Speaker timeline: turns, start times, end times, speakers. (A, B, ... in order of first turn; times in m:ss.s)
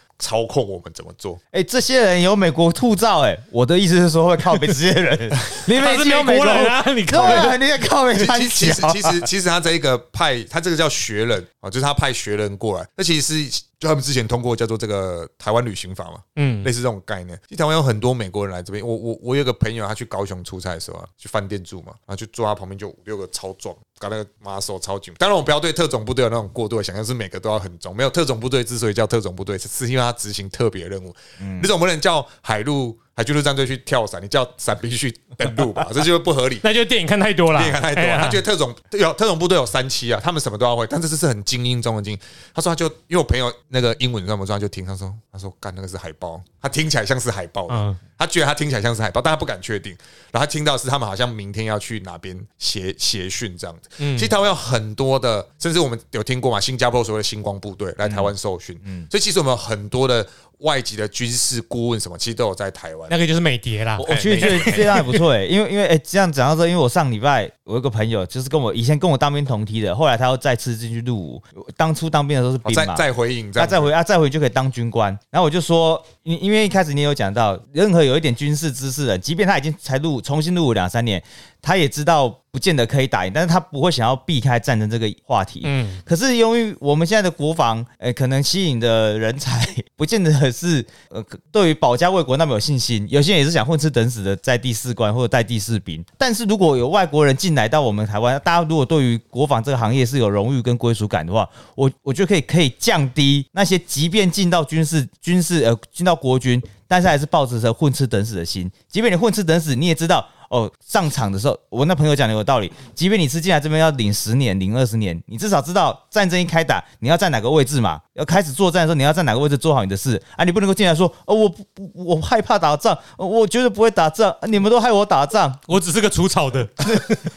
0:00.2-0:01.4 A
0:01.5-0:09.2 B
0:05.6-0:07.5 C
0:07.2-0:07.5 A
0:08.1-0:36.6 A
0:16.4-0:16.7 C
0:31.4-0:31.7 B
0:36.6-0:38.4 C
0:37.5-1:03.2 A
0:47.7-0:48.0 C
0:54.0-0:54.3 C
0:58.0-0:58.3 B
0:58.8-0:59.1 B
1:03.1-1:05.0 C
1:04.0-1:13.0 B
1:04.0-1:05.0 A
1:12.6-1:13.9 A
1:13.6-2:05.6 B
1:25.6-1:26.0 C
2:05.7-2:07.2 C